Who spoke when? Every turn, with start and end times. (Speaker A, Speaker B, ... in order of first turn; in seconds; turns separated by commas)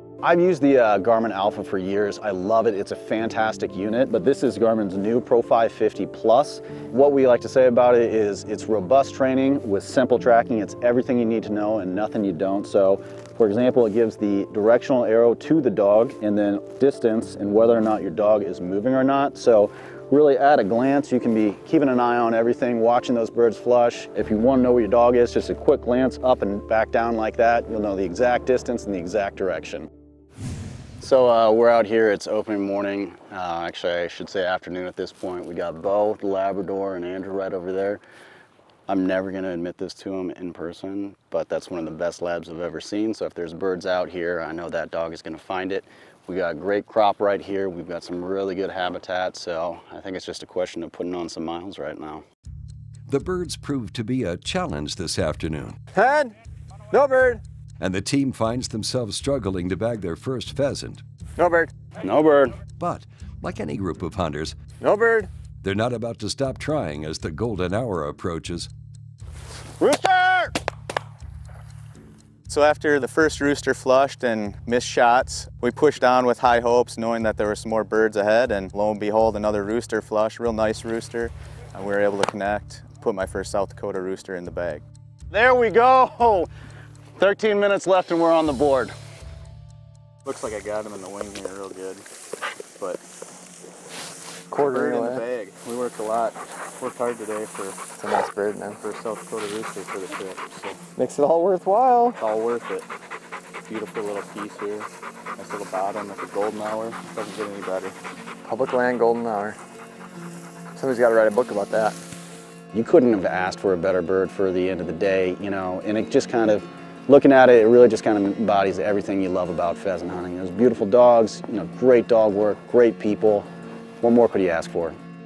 Speaker A: 0.2-29.9, Speaker A: 31.0-38.0, Speaker A: 38.9-52.2, Speaker B: 53.1-55.8, Speaker A: 56.0-56.3, Speaker A: 56.9-57.4, Speaker B: 57.8-61.0, Speaker A: 61.4-62.6, Speaker B: 62.8-64.6, Speaker A: 64.8-65.3, Speaker B: 65.6-68.7, Speaker A: 69.8-70.5, Speaker C: 72.5-84.8, Speaker A: 85.3-86.5, Speaker A: 87.2-88.9, Speaker C: 90.2-92.0, Speaker D: 94.5-95.2, Speaker C: 94.6-97.8, Speaker D: 98.0-98.8, Speaker C: 98.8-100.8, Speaker D: 101.0-102.2, Speaker C: 102.2-102.9, Speaker C: 103.7-108.0, Speaker D: 108.5-109.6, Speaker D: 110.7-112.0, Speaker A: 112.7-123.5, Speaker A: 124.0-125.0